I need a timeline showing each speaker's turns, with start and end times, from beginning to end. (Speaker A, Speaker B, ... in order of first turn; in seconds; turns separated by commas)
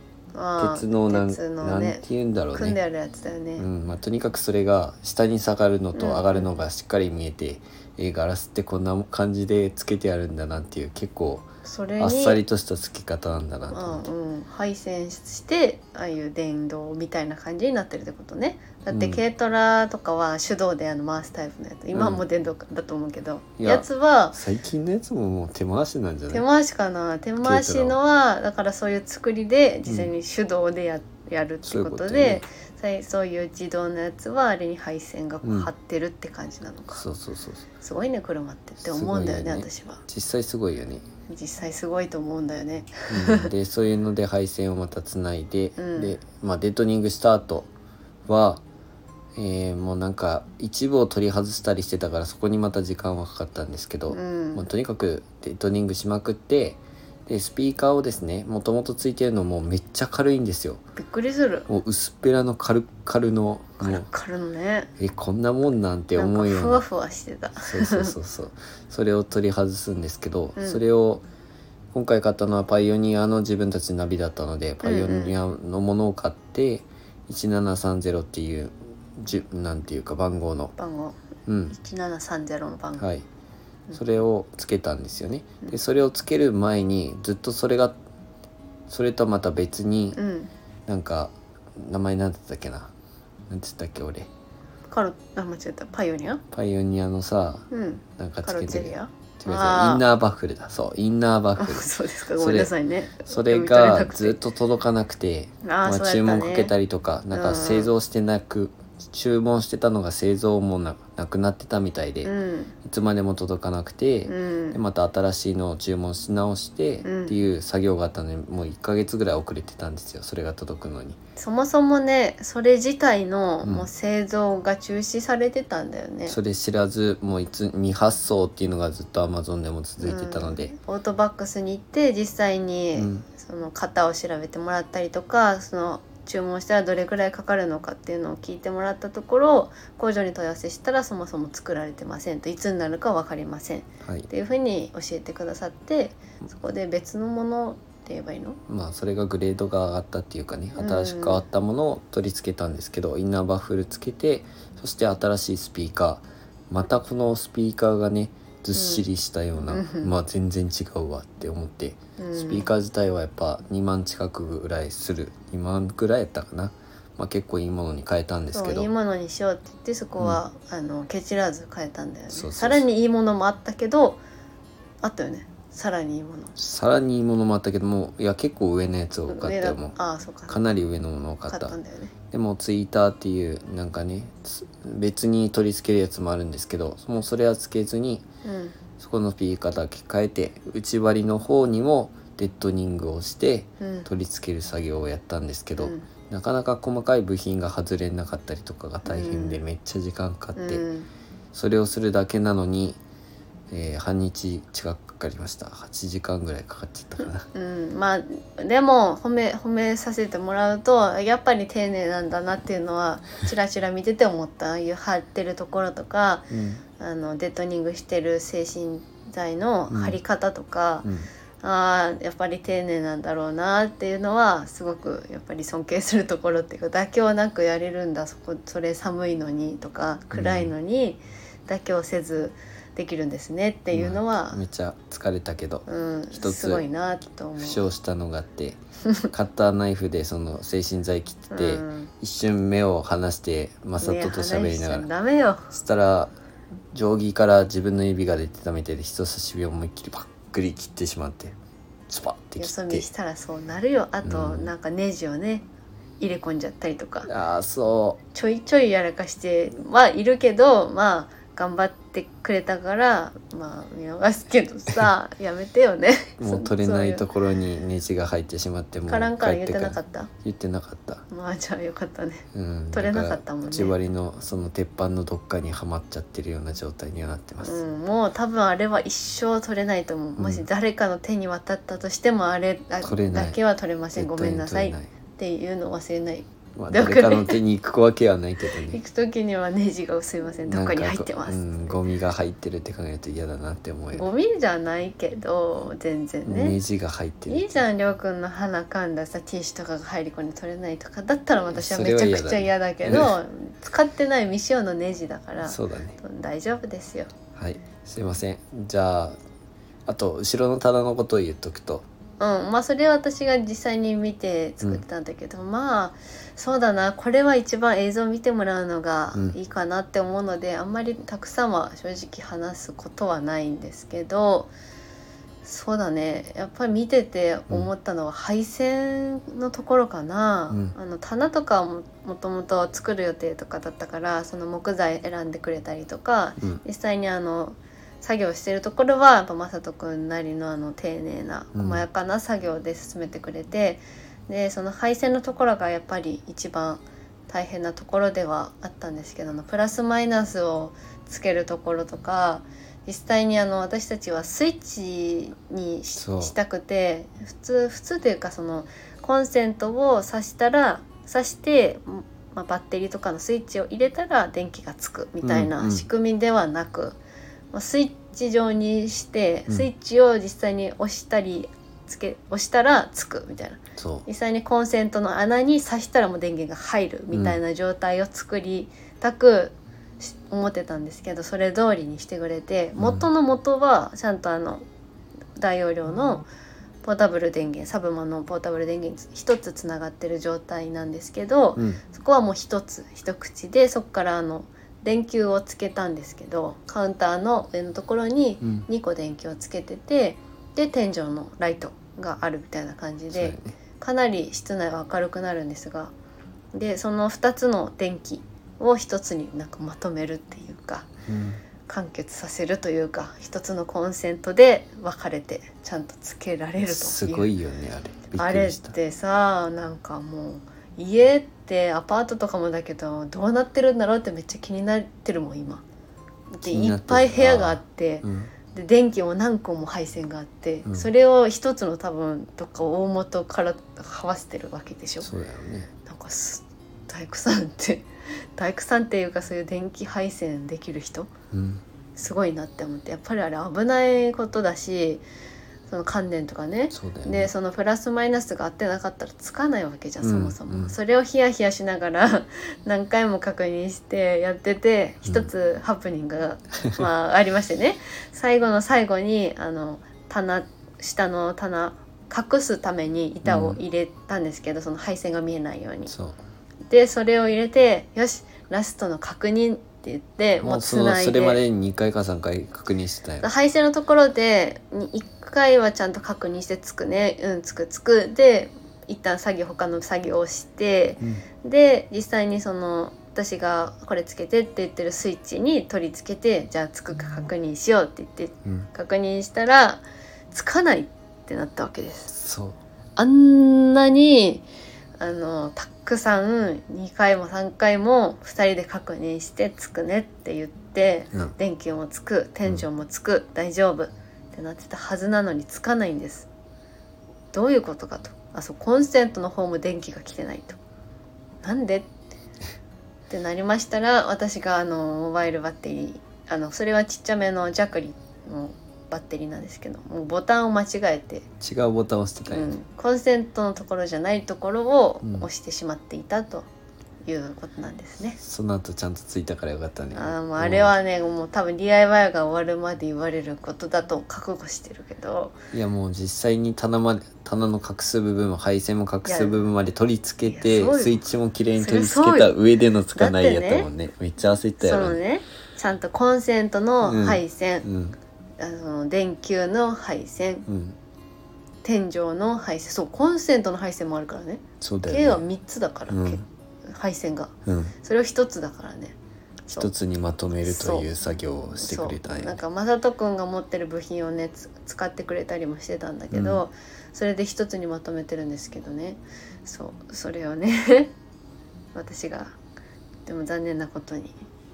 Speaker A: 0.3-2.0, Speaker B: 0.6-2.8, Speaker A: 2.5-3.6, Speaker B: 3.6-11.5, Speaker A: 5.9-6.5, Speaker A: 11.6-12.4, Speaker B: 12.0-14.0, Speaker A: 13.7-24.4, Speaker B: 18.9-19.2, Speaker B: 21.9-22.2, Speaker B: 23.6-26.4, Speaker A: 26.3-37.0, Speaker B: 27.4-28.0, Speaker B: 29.8-30.1, Speaker B: 31.6-32.4, Speaker B: 35.4-35.7, Speaker B: 36.9-37.6, Speaker A: 37.8-40.0, Speaker B: 38.8-41.0, Speaker A: 41.3-43.5, Speaker B: 43.1-47.7, Speaker A: 45.8-46.2, Speaker B: 48.2-48.6, Speaker B: 49.3-60.8, Speaker A: 54.1-54.7, Speaker A: 61.0-61.7, Speaker B: 61.7-64.1, Speaker A: 63.8-64.9, Speaker B: 65.0-66.8, Speaker A: 66.2-68.1, Speaker B: 67.5-71.2, Speaker B: 71.9-80.7, Speaker A: 74.8-75.3, Speaker A: 80.8-81.2, Speaker B: 81.5-81.8, Speaker A: 81.7-83.0, Speaker B: 83.0-83.2, Speaker B: 83.9-88.0, Speaker B: 88.9-90.2, Speaker A: 90.1-90.5, Speaker B: 90.9-92.9, Speaker B: 93.5-94.3, Speaker A: 94.9-96.4, Speaker B: 96.5-97.7, Speaker A: 97.7-100.0, Speaker B: 98.2-102.7, Speaker A: 101.6-104.4, Speaker B: 103.2-112.3, Speaker A: 105.6-106.7, Speaker A: 107.3-107.9, Speaker A: 112.2-112.7, Speaker B: 112.8-121.2, Speaker A: 114.2-114.8, Speaker A: 117.0-117.4, Speaker A: 121.4-126.4, Speaker B: 123.6-123.9, Speaker B: 126.3-130.7, Speaker A: 130.0-148.6, Speaker B: 132.9-133.2, Speaker B: 144.0-144.3, Speaker B: 148.7-168.9, Speaker A: 150.8-151.4, Speaker A: 158.7-159.1, Speaker A: 159.6-160.1, Speaker A: 162.2-162.7, Speaker A: 168.5-174.2, Speaker B: 172.3-172.8, Speaker A: 175.0-176.5, Speaker B: 176.6-179.9, Speaker A: 179.3-180.7, Speaker B: 180.5-181.7, Speaker A: 181.5-182.1, Speaker B: 182.3-188.2, Speaker A: 188.4-188.8, Speaker B: 189.0-200.8, Speaker A: 193.8-194.1, Speaker A: 195.8-196.1, Speaker A: 199.0-199.6, Speaker A: 200.6-201.1, Speaker B: 201.5-203.0, Speaker B: 203.7-207.4, Speaker A: 207.5-221.1, Speaker B: 216.5-216.8, Speaker B: 219.9-220.2, Speaker A: 221.6-234.6, Speaker B: 230.3-230.7, Speaker B: 233.9-236.8, Speaker A: 235.9-237.9, Speaker B: 237.6-238.8, Speaker B: 239.3-245.1, Speaker A: 241.5-242.1, Speaker A: 244.0-245.7, Speaker B: 245.7-246.3, Speaker B: 246.9-251.6, Speaker B: 252.1-253.1, Speaker A: 252.6-255.7, Speaker B: 254.2-254.7, Speaker A: 256.2-257.3, Speaker B: 257.2-258.2, Speaker A: 258.3-267.3, Speaker B: 266.4-271.2, Speaker A: 269.1-270.3, Speaker A: 271.3-273.9, Speaker B: 272.5-277.8, Speaker A: 277.6-287.6, Speaker B: 280.4-280.6, Speaker B: 283.0-283.6, Speaker B: 284.1-285.1, Speaker B: 286.8-289.0, Speaker A: 288.8-291.9, Speaker B: 290.7-294.2, Speaker A: 294.1-296.8, Speaker B: 296.4-297.9, Speaker A: 297.5-307.3, Speaker B: 301.7-303.3, Speaker B: 305.6-306.2, Speaker B: 307.6-309.4, Speaker B: 310.1-312.1, Speaker A: 312.4-324.7, Speaker A: 325.6-367.2, Speaker B: 330.7-330.9, Speaker B: 341.7-342.0, Speaker B: 356.1-356.5, Speaker B: 365.4-366.1, Speaker A: 367.7-384.8, Speaker B: 374.0-374.2, Speaker B: 377.3-377.6, Speaker B: 383.0-383.3, Speaker A: 385.6-386.4, Speaker A: 387.0-406.1, Speaker B: 403.3-403.7, Speaker A: 406.7-411.1, Speaker B: 411.3-411.6, Speaker A: 411.9-417.5, Speaker B: 416.8-418.9, Speaker A: 418.3-425.8, Speaker A: 426.5-435.3, Speaker B: 426.6-428.5, Speaker B: 435.2-435.9, Speaker A: 436.1-441.3, Speaker B: 441.5-441.8, Speaker A: 442.1-445.2, Speaker A: 445.9-466.1, Speaker B: 446.9-447.5, Speaker B: 450.2-450.9, Speaker B: 463.4-463.8, Speaker B: 466.1-466.4, Speaker A: 466.9-471.6, Speaker B: 470.6-473.5, Speaker A: 473.4-492.3, Speaker B: 492.3-492.8, Speaker A: 493.1-494.6, Speaker A: 495.2-506.5, Speaker A: 507.5-510.8, Speaker A: 511.6-512.1, Speaker A: 513.3-521.5, Speaker B: 521.6-522.8, Speaker A: 522.5-526.7, Speaker B: 525.2-525.5, Speaker A: 527.2-528.4, Speaker B: 528.4-530.9, Speaker A: 530.1-535.6, Speaker B: 535.7-545.2, Speaker A: 539.2-539.6, Speaker A: 540.4-541.2, Speaker A: 541.7-542.5, Speaker A: 543.1-543.9, Speaker A: 544.8-547.9, Speaker B: 547.0-548.1, Speaker A: 548.6-550.7, Speaker B: 550.7-551.0, Speaker A: 551.8-559.1, Speaker B: 554.8-555.4, Speaker B: 556.1-556.4, Speaker B: 557.6-557.9, Speaker B: 559.7-562.6, Speaker A: 560.6-561.2, Speaker A: 561.8-571.1, Speaker B: 566.3-566.6, Speaker A: 571.9-572.5, Speaker A: 573.2-574.3